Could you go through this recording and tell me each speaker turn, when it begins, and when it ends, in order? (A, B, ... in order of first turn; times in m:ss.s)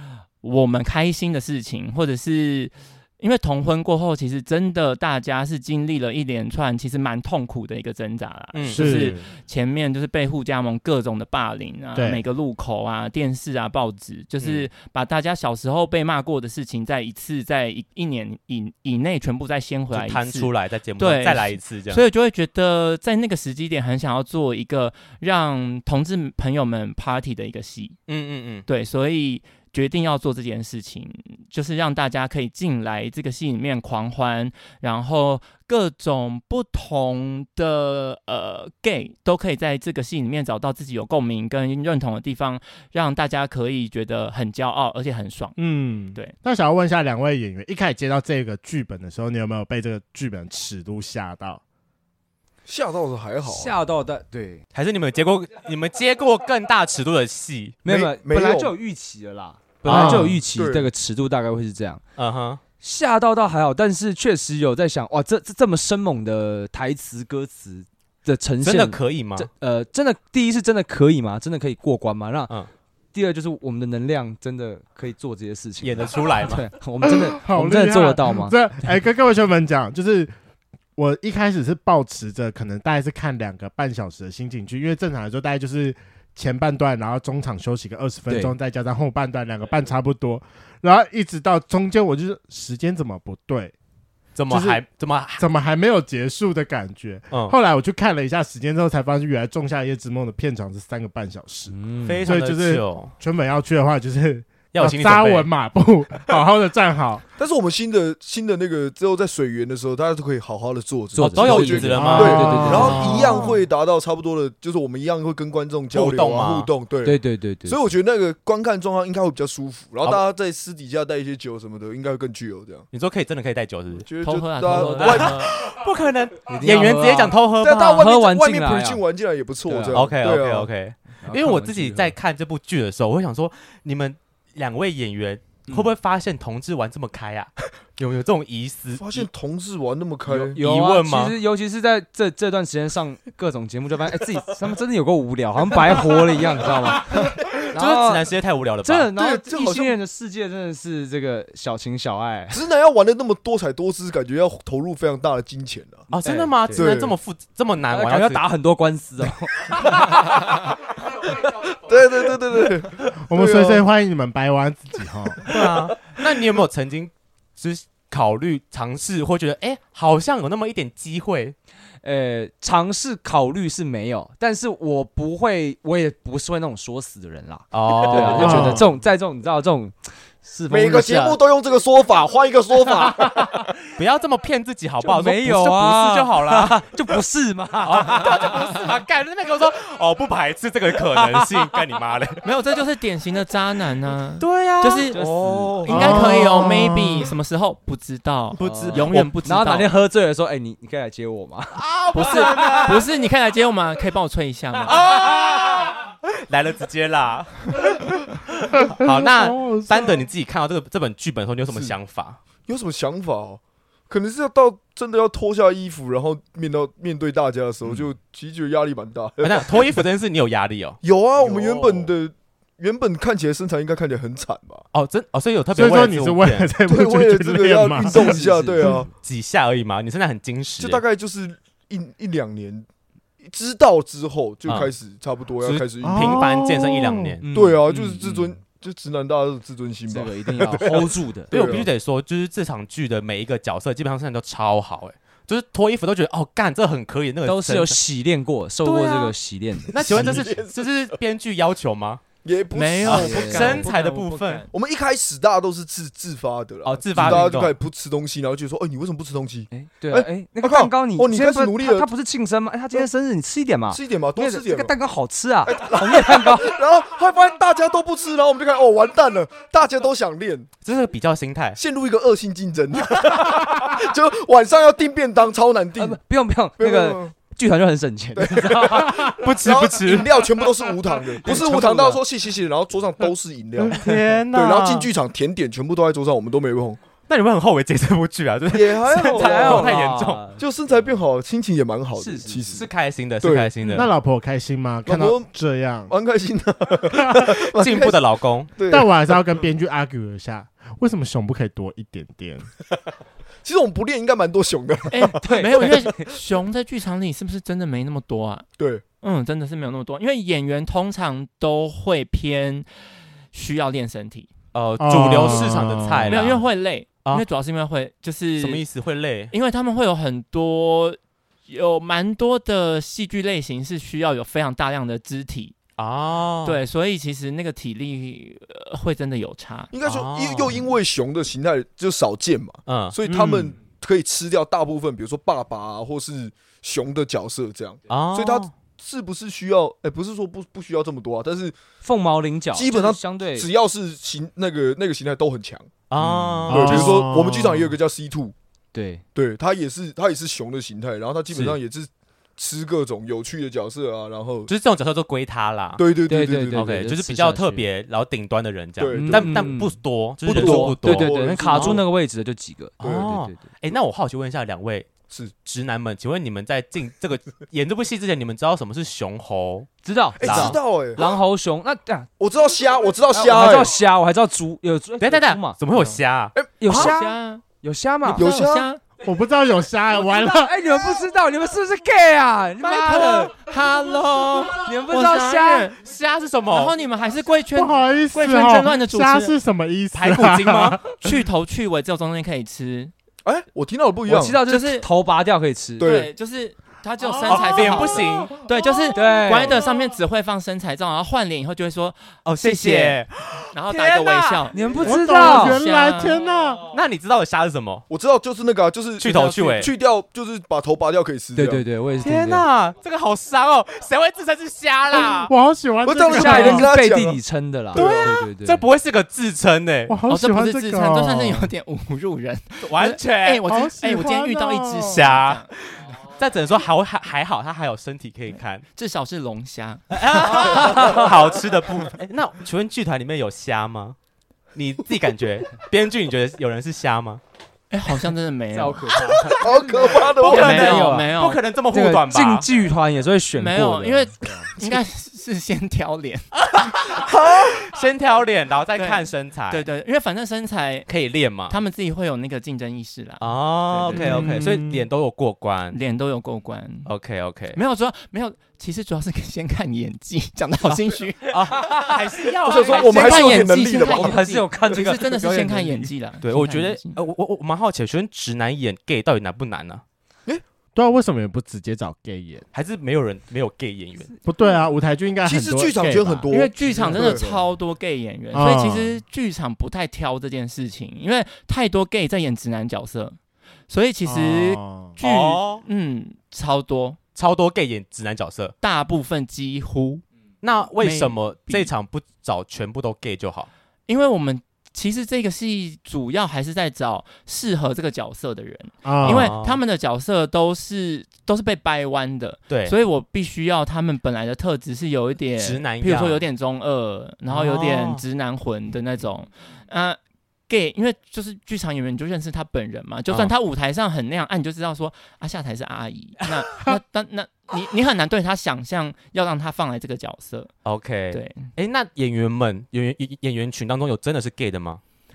0:00.4-0:28.0 A
0:08.5-0:09.2 B
0:08.7-0:09.2 C
0:12.0-0:12.2 C
0:14.4-0:14.7 B
0:19.9-0:22.0 B
0:28.1-0:28.6 B
0:28.7-0:45.6 A
0:45.6-0:51.6 C
0:52.6-0:53.8 D
0:53.4-0:54.6 E
0:54.7-0:57.8 B
0:57.8-1:02.0 E
0:57.9-0:58.8 D
0:59.9-1:00.9 D
0:59.9-1:00.4 C
1:02.2-1:02.6 B
1:02.8-1:12.5 E
1:08.6-1:09.5 B
1:13.1-1:18.6 E
1:15.8-1:16.6 B
1:17.1-1:20.3 C
1:21.0-1:33.7 C
1:28.3-1:28.6 E
1:34.4-1:35.4 B
1:34.5-1:34.8 C
1:35.4-1:47.2 C
1:37.3-1:37.6 B
1:41.7-1:42.3 E
1:42.0-1:43.1 B
1:44.7-1:45.5 B
1:47.4-2:02.9 D
1:51.2-1:53.4 E
1:51.2-1:53.6 B
1:52.0-1:53.5 C
1:55.9-1:56.7 B
1:57.0-1:57.8 E
2:02.9-2:04.1 B
2:03.9-2:05.5 D
2:04.2-2:05.6 A
2:04.7-2:05.2 E
2:04.8-2:08.1 B
2:06.5-2:09.0 E
2:07.6-2:10.7 D
2:09.7-2:10.1 E
2:09.9-2:19.3 B
2:11.2-2:12.1 E
2:19.0-2:20.6 D
2:20.3-2:28.3 E
2:20.6-2:21.4 B
2:27.8-2:29.1 B
2:28.8-2:32.6 E
2:29.2-2:30.0 D
2:32.5-2:36.1 D
2:36.1-2:38.4 B
2:36.2-2:36.9 E
2:36.7-2:37.2 D
2:37.9-2:40.4 E
2:41.7-2:43.8 D
2:43.2-2:45.5 C
2:45.5-2:45.7 D
2:45.5-2:51.6 B
2:52.0-3:01.4 E
2:57.7-2:58.8 B
2:58.1-2:58.8 D
2:58.4-2:58.8 C
3:00.7-3:03.6 D
3:03.0-3:03.7 E
3:04.0-3:06.8 B
3:05.0-3:08.8 E
3:07.8-3:12.4 B
3:12.4-3:15.2 A
3:14.4-3:15.2 B
3:15.1-3:16.1 E
3:15.2-3:16.1 D
3:15.9-3:19.9 A
3:15.9-3:17.3 C
3:18.6-3:19.3 B
3:18.6-3:21.8 E
3:21.8-3:23.0 B
3:22.1-3:25.0 A
3:24.8-3:32.4 B
3:29.0-3:30.2 C
3:31.7-3:31.9 D
3:32.7-3:39.9 D
3:39.4-3:42.1 B
3:41.0-3:44.8 D
3:44.9-3:46.7 B
3:45.7-3:48.9 C
3:46.9-3:49.1 D
3:48.1-3:49.0 E
3:49.2-3:51.0 B
3:50.8-3:52.9 D
3:53.4-3:56.5 D
3:54.6-3:54.9 B
3:55.6-3:57.4 B
3:56.0-3:57.4 C
3:57.4-3:58.6 E
3:57.5-4:01.9 D
4:00.1-4:01.5 E
4:01.5-4:08.0 B
4:07.4-4:10.5 E
4:08.8-4:09.3 B
4:09.9-4:12.2 B
4:10.0-4:10.8 D
4:12.4-4:13.8 D
4:12.7-4:14.7 A
4:13.0-4:14.6 B
4:13.1-4:13.9 E
4:14.7-4:22.1 D
4:16.8-4:17.8 B
4:17.2-4:17.5 E
4:19.7-4:26.8 E
4:23.9-4:25.0 D
4:25.7-4:30.7 D
4:30.8-4:31.8 B
4:31.8-4:36.2 D
4:36.0-4:39.3 E
4:36.8-4:37.4 D
4:38.4-4:47.0 D
4:39.1-4:40.7 B
4:41.4-4:42.2 E
4:43.9-4:45.1 B
4:47.3-4:50.4 B
4:48.7-4:52.9 D
4:49.3-4:50.6 E
4:52.2-4:52.7 E
4:52.7-4:54.1 B
4:53.4-4:54.0 D
4:53.9-4:56.1 C
4:55.1-4:55.5 D
4:56.1-4:58.2 D
4:57.8-4:58.7 B
4:58.7-4:59.1 D
4:58.9-5:02.7 C
5:03.6-5:05.4 D
5:05.1-5:08.7 A
5:05.4-5:06.4 E
5:09.2-5:12.9 A
5:13.5-5:14.5 A
5:14.7-5:16.6 B
5:15.0-5:16.4 C
5:16.3-5:18.8 A
5:18.6-5:19.5 B
5:19.5-5:25.8 A
5:26.0-5:26.8 B
5:26.6-5:29.9 A
5:29.9-5:41.8 D
5:30.0-5:30.9 B
5:32.9-5:33.2 B
5:33.2-5:33.8 C
5:38.1-5:38.7 B
5:42.0-5:43.7 E
5:42.7-5:45.9 D
5:46.1-5:47.2 B
5:46.3-5:46.6 E
5:46.7-5:48.5 D
5:46.7-5:47.9 C
5:48.9-5:49.2 E
5:49.4-5:54.7 D
5:54.7-5:56.0 B
5:56.0-5:56.9 D
5:56.3-5:57.8 E
5:56.7-6:02.0 B
5:59.0-5:59.8 D
5:59.1-6:03.6 E
6:00.5-6:02.1 D
6:03.0-6:03.4 D
6:03.0-6:05.1 B
6:05.6-6:10.8 B
6:10.0-6:12.3 E
6:10.4-6:11.4 D
6:12.4-6:14.0 D
6:13.3-6:15.8 E
6:15.2-6:16.6 B
6:16.0-6:16.2 A
6:16.6-6:17.2 D
6:16.8-6:18.5 E
6:16.9-6:17.6 A
6:18.2-6:19.0 A
6:18.3-6:18.9 D
6:19.2-6:20.7 C
6:20.1-6:23.6 E
6:22.8-6:26.0 A
6:24.8-6:25.9 E
6:26.0-6:26.9 B
6:26.7-6:29.5 A
6:27.8-6:31.2 C
6:30.1-6:31.0 B
6:31.2-6:33.1 A
6:33.4-6:34.6 D
6:34.3-6:36.1 E
6:34.6-6:35.1 A
6:36.0-6:36.3 D
6:36.0-6:43.2 A
6:37.2-6:39.0 C
6:37.5-6:38.6 B
6:39.1-6:39.8 E
6:42.4-6:44.7 B
6:43.7-6:46.4 A
6:44.7-6:45.8 E
6:45.0-6:46.8 C
6:46.9-6:48.0 B
6:48.1-6:51.8 D
6:49.2-6:49.9 B
6:51.6-6:52.7 E
6:52.2-6:55.5 B
6:55.5-6:56.9 C
6:56.0-6:57.4 D
6:56.2-6:58.8 E
6:57.9-6:58.3 D
6:58.0-7:00.2 B
7:00.1-7:01.7 C
7:00.3-7:05.7 A
7:02.8-7:03.6 B
7:03.7-7:05.2 C
7:05.1-7:08.8 B
7:09.0-7:11.2 A
7:10.1-7:14.2 B
7:10.8-7:11.2 E
7:14.8-7:17.4 B
7:17.9-7:19.5 A
7:18.7-7:21.4 E
7:19.6-7:20.8 D
7:20.2-7:22.7 B
7:20.4-7:21.6 A
7:21.9-7:24.7 E
7:23.6-7:26.5 A
7:26.6-7:29.9 B
7:27.2-7:27.8 D
7:29.0-7:31.1 A
7:31.1-7:31.8 B
7:31.7-7:34.7 A
7:33.4-7:36.0 B
7:34.2-7:35.1 C
7:35.9-7:37.1 A
7:37.1-7:37.8 B
7:37.7-7:41.5 A
7:41.5-7:43.7 B
7:42.6-7:44.5 D
7:42.8-7:47.2 A
7:43.8-7:46.1 E
7:46.4-7:50.0 B
7:51.0-7:52.6 C
7:52.7-7:54.3 B
7:54.4-7:56.5 C
7:55.4-7:57.6 D
7:56.5-8:03.4 A
7:58.5-7:59.2 C
8:03.9-8:07.2 A
8:04.2-8:05.2 C
8:05.2-8:05.8 B
8:07.4-8:08.8 B
8:08.8-8:10.2 A
8:10.6-8:13.7 B
8:11.0-8:11.9 A
8:14.1-8:40.7 A
8:19.0-8:19.5 C
8:19.2-8:19.8 B
8:22.7-8:23.0 B
8:25.6-8:26.4 B
8:27.5-8:28.2 B
8:40.8-8:45.0 B
8:41.3-8:41.7 A